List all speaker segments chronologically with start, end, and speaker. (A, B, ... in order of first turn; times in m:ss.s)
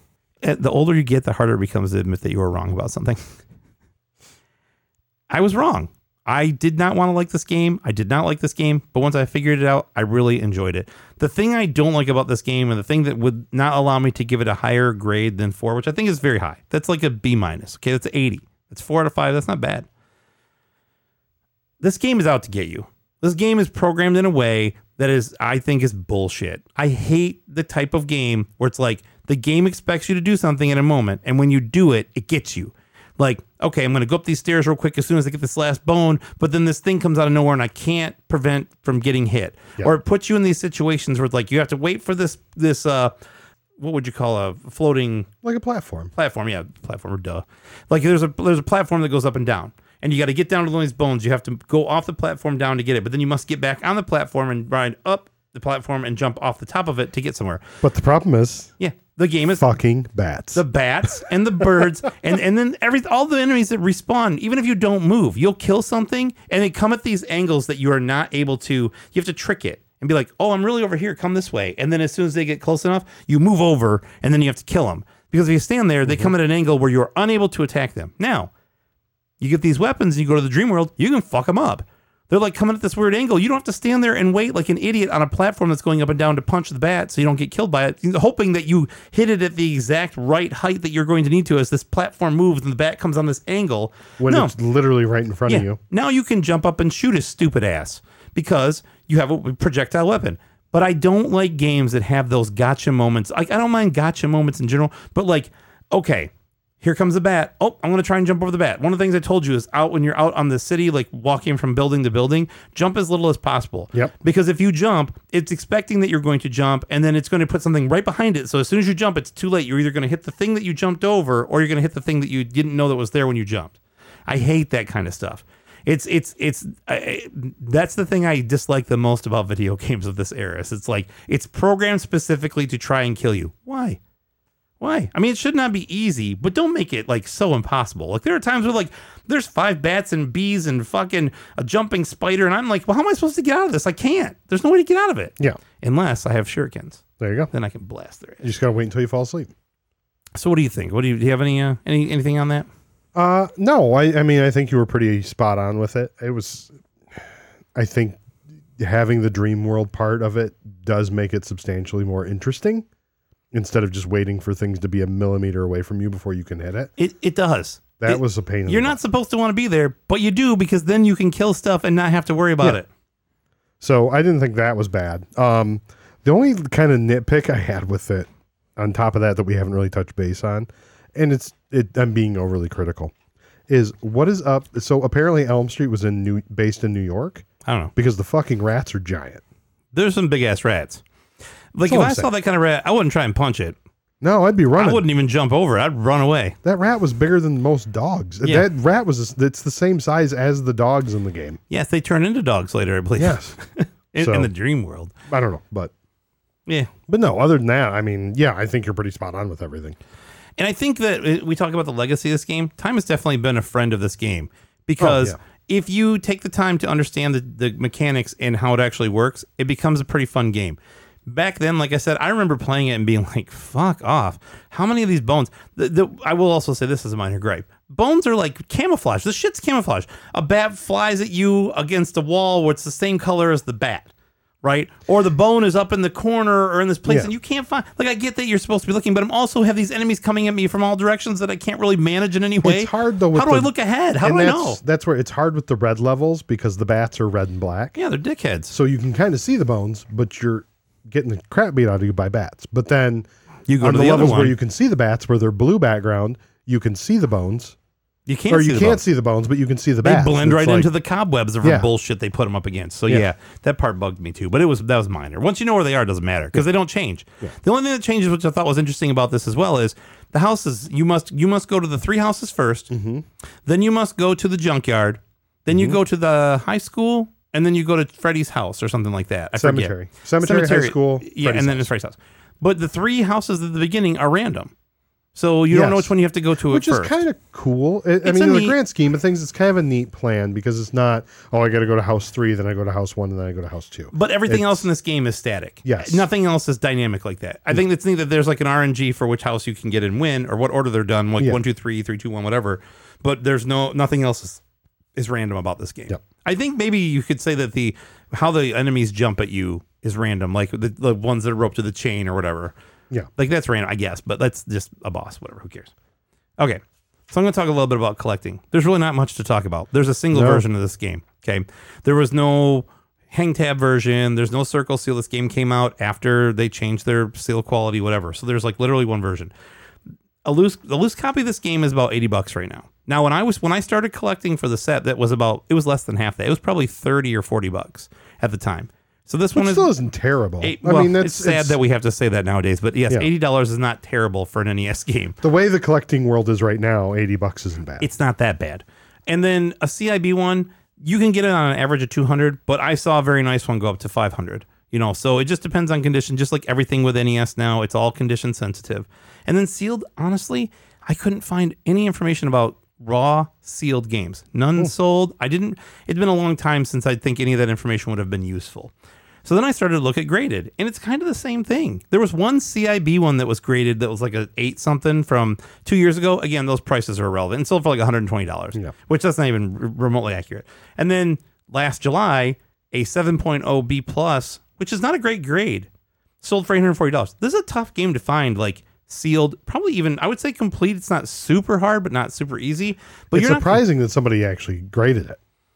0:00.4-0:03.2 A
0:05.3-0:19.9 A
0:21.8-0:43.1 A
0:43.8-0:45.3 A
0:45.4-0:46.1 B
0:46.2-0:57.6 A
0:57.8-0:58.7 B
0:58.8-0:59.7 A
0:59.6-1:00.6 B
1:00.5-1:18.5 A
1:16.0-1:16.3 B
1:19.4-1:34.5 A
1:34.2-1:35.8 B
1:35.5-2:14.0 A
2:14.8-2:28.5 A
2:27.2-2:27.5 B
2:28.4-2:29.5 B
2:30.3-2:32.7 A
2:33.1-2:38.2 B
2:38.8-2:42.8 B
2:43.5-2:46.9 B
2:47.0-2:52.9 A
2:48.0-2:49.0 B
2:53.8-3:03.1 B
3:03.7-3:09.4 B
3:07.6-3:07.9 A
3:09.9-3:11.0 A
3:11.7-3:13.8 A
3:11.8-3:12.3 B
3:14.2-3:15.0 B
3:14.8-3:16.6 A
3:16.6-3:21.6 B
3:21.7-3:25.1 A
3:23.2-3:23.5 B
3:24.2-3:24.5 B
3:25.3-3:25.9 B
3:27.1-3:30.0 B
3:30.6-3:54.1 A
3:35.0-3:35.4 B
3:54.6-4:04.8 A
3:57.1-3:57.3 B
4:02.6-4:07.9 B
4:08.0-4:08.7 A
4:08.7-4:13.3 B
4:13.7-4:14.6 A
4:13.8-4:17.8 B
4:18.3-4:19.0 A
4:18.5-4:20.9 B
4:20.0-4:32.9 A
4:21.6-4:21.9 B
4:32.9-4:33.2 B
4:33.6-4:44.7 A
4:35.7-4:36.0 B
4:39.6-4:41.9 B
4:45.3-4:47.1 A
4:45.7-4:46.1 B
4:46.6-4:54.9 B
4:48.2-4:48.8 A
4:54.1-5:04.6 A
4:55.8-4:56.2 B
5:05.2-5:12.7 A
5:13.4-5:15.9 A
5:16.6-5:29.5 A
5:20.3-5:20.6 B
5:30.4-5:39.9 A
5:39.6-5:41.8 B
5:40.6-5:45.4 A
5:45.4-5:48.0 B
5:48.0-6:08.9 A
6:09.4-6:25.9 A
6:26.4-6:33.8 A
6:33.3-6:35.4 B